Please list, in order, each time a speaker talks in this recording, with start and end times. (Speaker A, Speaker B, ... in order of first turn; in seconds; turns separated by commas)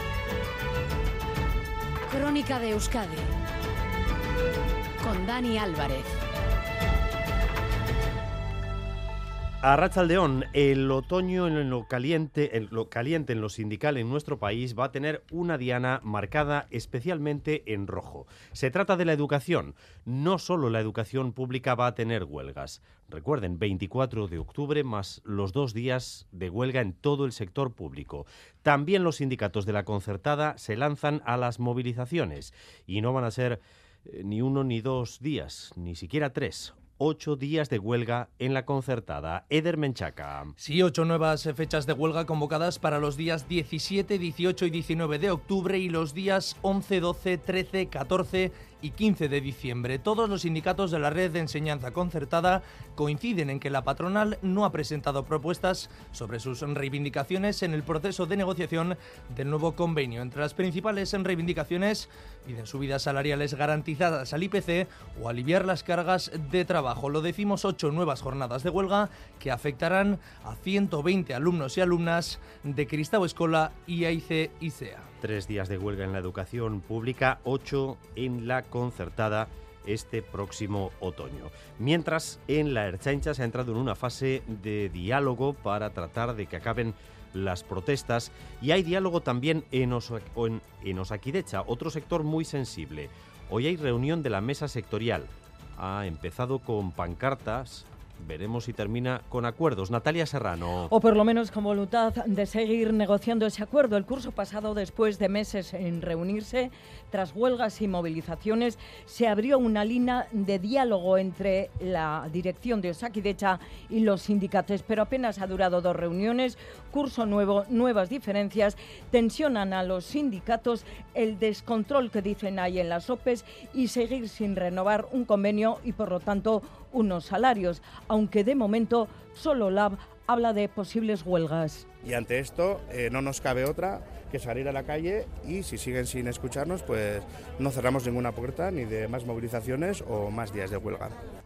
Speaker A: 2.1-3.3, Speaker A: 5.0-6.2, Speaker B: 9.6-40.5, Speaker C: 40.6-75.0, Speaker B: 75.2-100.9, Speaker D: 100.9-131.9, Speaker E: 132.0-141.2